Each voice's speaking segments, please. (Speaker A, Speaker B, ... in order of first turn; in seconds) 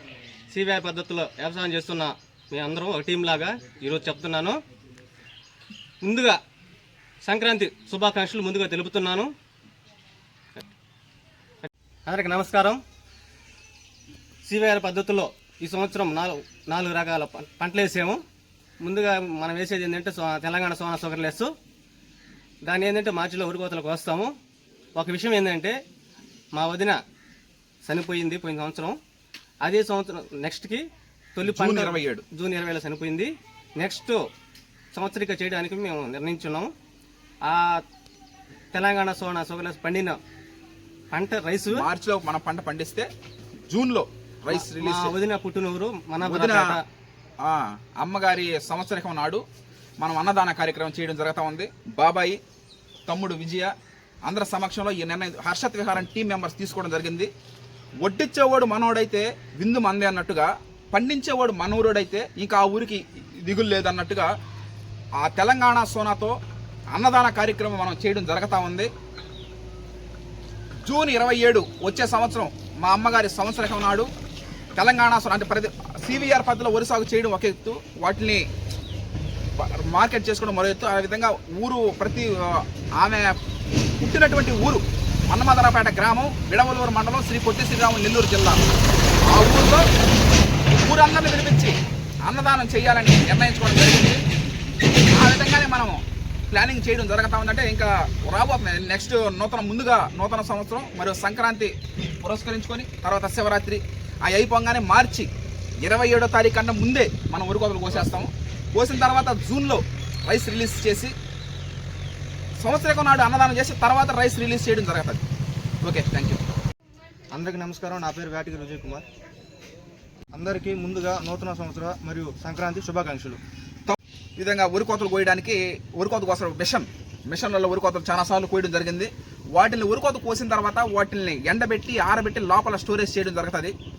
Speaker A: 0.5-4.6, 6.0-6.4, 7.2-9.3, 12.1-12.8, 14.5-18.2, 18.8-21.5, 22.7-24.3, 25.0-25.8, 26.6-27.0, 27.9-29.0, 29.6-34.2, 34.9-36.7, 37.4-37.8, 38.7-40.2, 41.1-41.9, 44.5-46.8
Speaker B: 31.4-32.2, 41.7-43.1, 43.7-45.1, 46.2-46.8, 47.4-49.4, 50.0-52.4, 53.1-53.7, 54.2-57.3, 58.0-64.3, 65.2-66.4, 66.9-68.9, 70.8-74.1, 74.8-78.4, 79.6-83.3, 84.0-88.6, 89.3-89.8, 90.7-91.7, 92.2-94.2, 95.1-105.3, 105.8-111.1, 112.6-115.2, 115.8-116.4, 123.9-133.7
Speaker C: 117.3-119.0, 120.3-123.4